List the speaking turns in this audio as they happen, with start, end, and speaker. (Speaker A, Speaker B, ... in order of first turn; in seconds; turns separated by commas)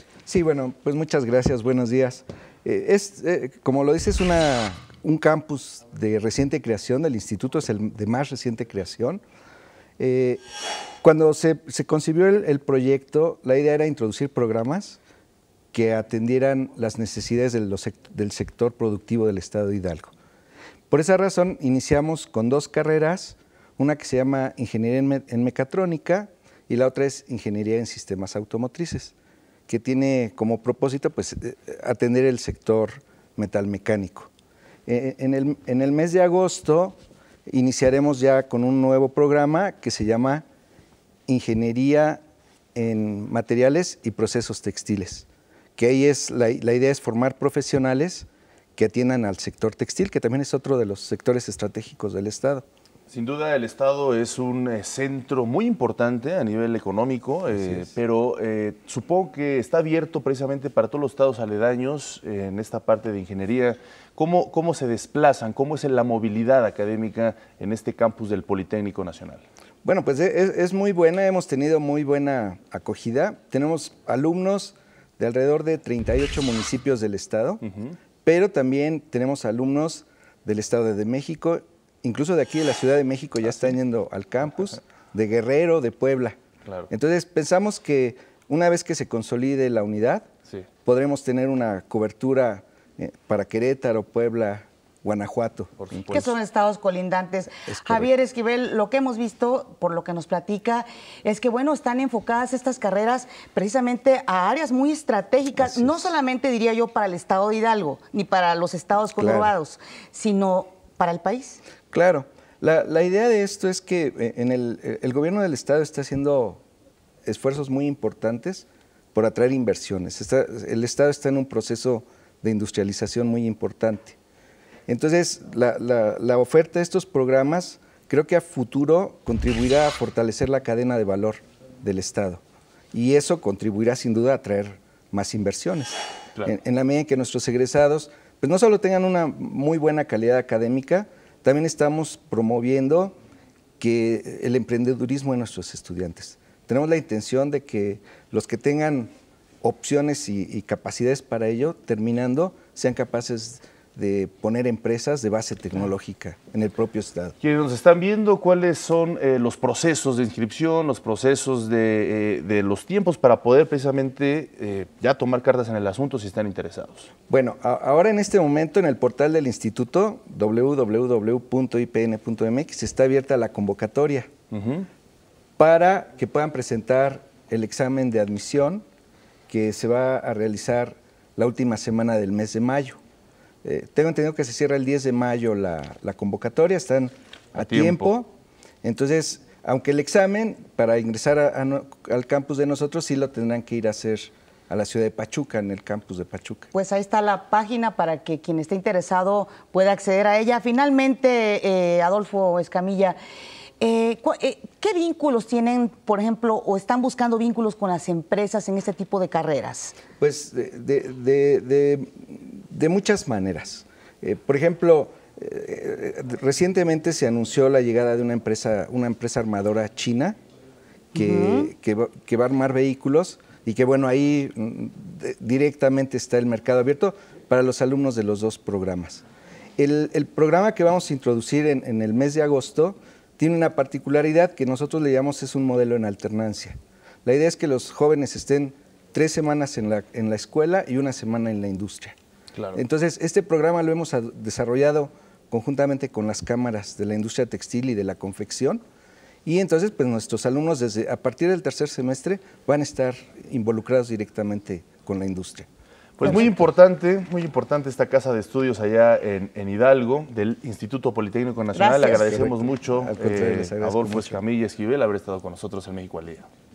Speaker A: 0.2-9.2, Speaker A: 10.0-10.4, Speaker A: 11.0-15.0, Speaker A: 15.7-20.1, Speaker A: 20.9-29.1, Speaker A: 29.7-34.3, Speaker A: 34.9-40.4, Speaker A: 41.3-42.2, Speaker A: 42.7-52.6, Speaker B: 53.1-69.4, Speaker A: 69.8-77.6, Speaker A: 78.2-86.4, Speaker A: 86.9-90.3, Speaker A: 90.8-96.1, Speaker B: 95.8-96.3, Speaker C: 96.1-111.6, Speaker A: 97.6-98.1, Speaker A: 105.6-106.1, Speaker A: 109.2-109.5, Speaker A: 111.9-116.6, Speaker A: 117.2-124.2, Speaker A: 124.9-132.4, Speaker A: 132.9-143.1, Speaker A: 143.8-149.1, Speaker A: 149.6-157.3, Speaker B: 157.4-167.1, Speaker A: 167.3-174.3, Speaker B: 174.5-174.9, Speaker A: 175.6-178.8, Speaker A: 179.5-183.0, Speaker A: 183.6-188.3, Speaker B: 187.5-188.1, Speaker A: 188.8-196.7, Speaker C: 196.7-203.2, Speaker C: 203.8-210.0, Speaker A: 210.2-220.3, Speaker A: 221.1-229.2, Speaker C: 221.1-221.7, Speaker A: 229.8-242.2, Speaker A: 242.7-248.8, Speaker A: 249.4-255.7, Speaker B: 256.2-266.5, Speaker A: 256.2-256.7, Speaker C: 261.7-262.4, Speaker A: 262.1-264.4